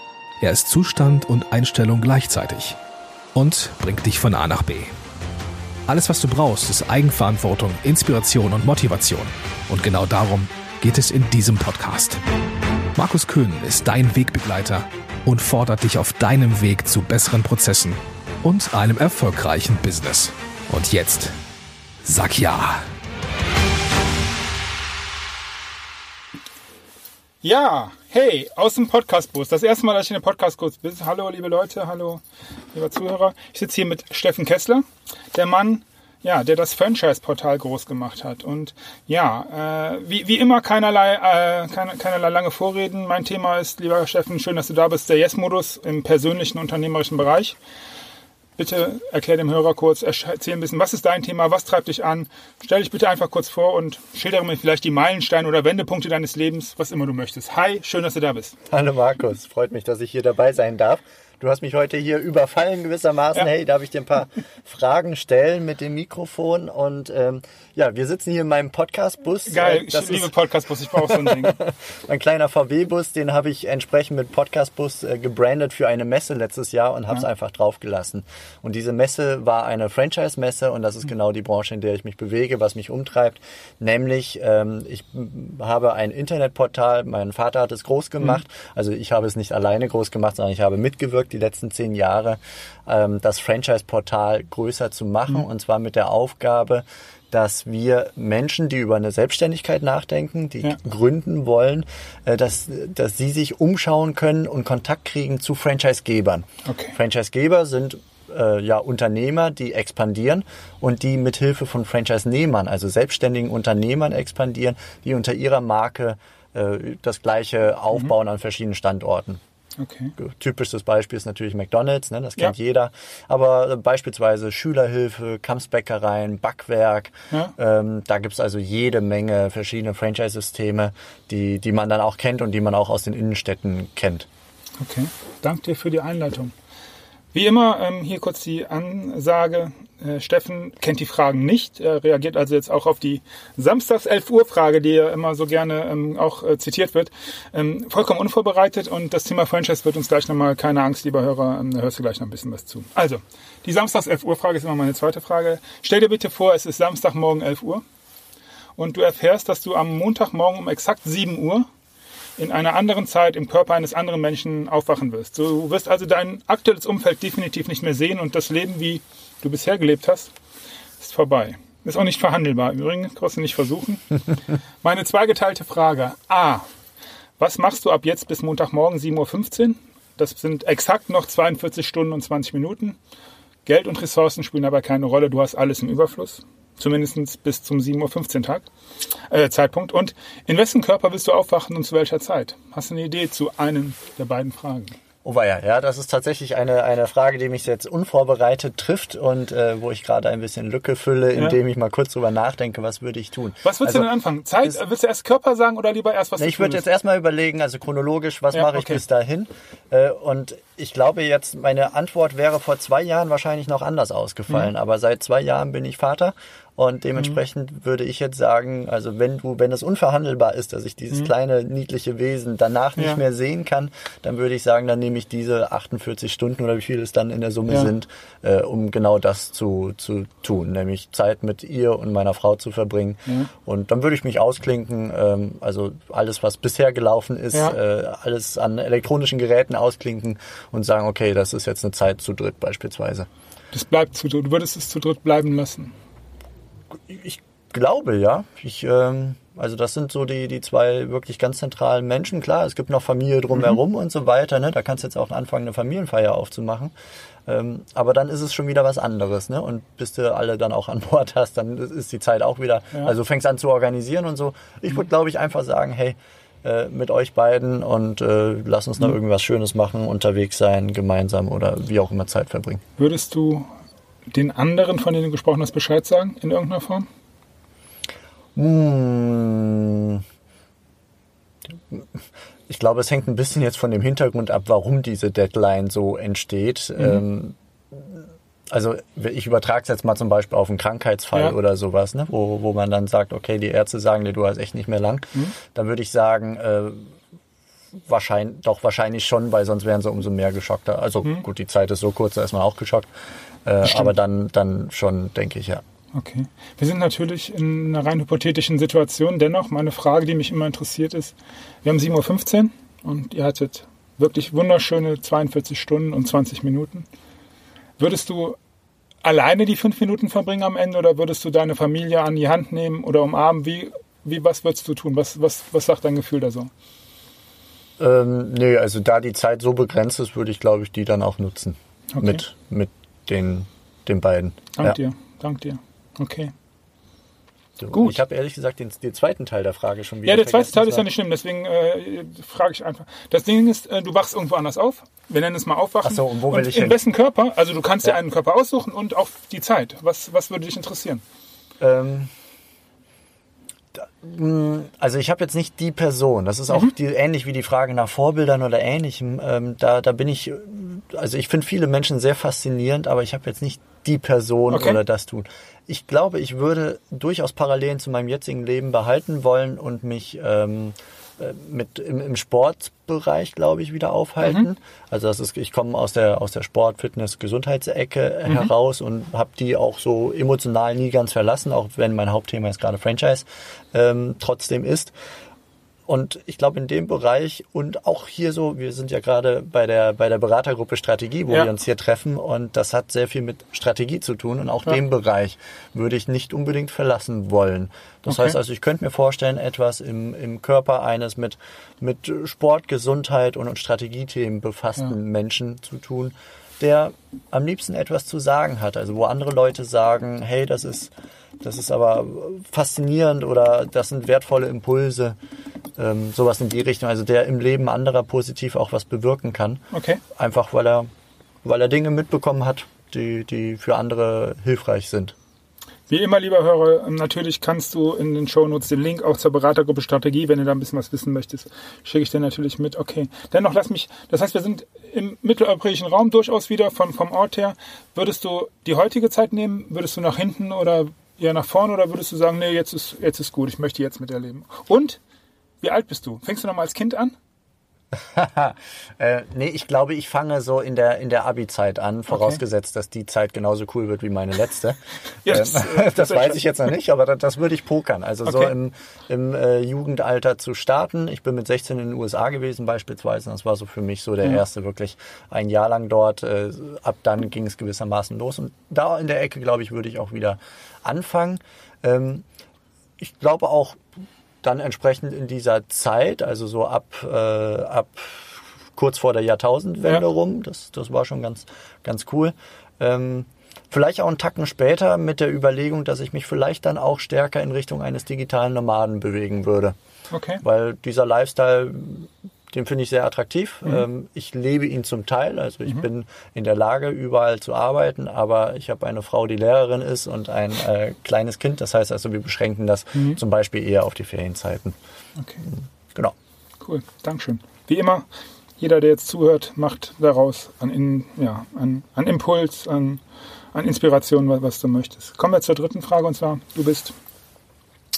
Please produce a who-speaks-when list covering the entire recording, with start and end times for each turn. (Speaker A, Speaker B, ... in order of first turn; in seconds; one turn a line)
Speaker A: 0.4-2.8
Speaker A: 3.3-4.9
Speaker A: 5.9-12.2
Speaker A: 12.9-21.3
Speaker A: 22.0-22.8
Speaker B: 27.4-47.6
Speaker B: 48.6-58.6
Speaker C: 58.7-70.3
Speaker B: 69.5-71.5
Speaker C: 70.9-119.4
Speaker B: 106.7-106.9
Speaker B: 119.8-120.1
Speaker C: 120.2-134.3
Speaker B: 134.8-136.5
Speaker B: 137.3-157.8
Speaker B: 158.8-161.7
Speaker B: 162.4-170.3
Speaker B: 171.0-174.0
Speaker B: 174.8-176.6
Speaker B: 177.4-183.0
Speaker B: 183.7-188.7
Speaker B: 189.3-194.9
Speaker C: 195.2-204.1
Speaker B: 203.6-206.8
Speaker C: 206.4-243.3
Speaker B: 208.5-209.0
Speaker B: 237.5-237.8
Speaker B: 243.7-245.9
Speaker C: 246.9-256.9
Speaker C: 257.4-272.8
Speaker B: 273.0-273.7
Speaker B: 274.3-277.1
Speaker C: 278.6-280.2
Speaker C: 281.7-282.1
Speaker C: 282.7-297.1
Speaker C: 298.0-303.1
Speaker C: 303.6-305.8
Speaker B: 306.1-317.1
Speaker B: 318.0-318.6
Speaker B: 319.2-326.7
Speaker C: 328.0-335.0
Speaker B: 332.1-332.4
Speaker B: 334.8-336.5
Speaker C: 337.8-341.1
Speaker B: 340.2-351.2
Speaker C: 346.0-347.0
Speaker C: 351.8-352.3
Speaker C: 353.9-385.1
Speaker B: 364.7-365.0
Speaker C: 386.1-415.4
Speaker C: 415.9-419.8
Speaker B: 419.9-420.2
Speaker C: 420.3-421.1
Speaker C: 421.6-425.3
Speaker B: 426.1-445.2
Speaker B: 445.8-447.3
Speaker C: 448.1-472.4
Speaker B: 452.3-452.6
Speaker B: 455.4-456.6
Speaker B: 458.4-458.7
Speaker C: 473.2-474.0
Speaker C: 474.6-489.9
Speaker B: 490.3-490.6
Speaker C: 490.6-505.0
Speaker B: 505.4-505.6
Speaker C: 505.7-506.3
Speaker B: 506.8-508.3
Speaker B: 508.8-513.2
Speaker B: 513.7-517.1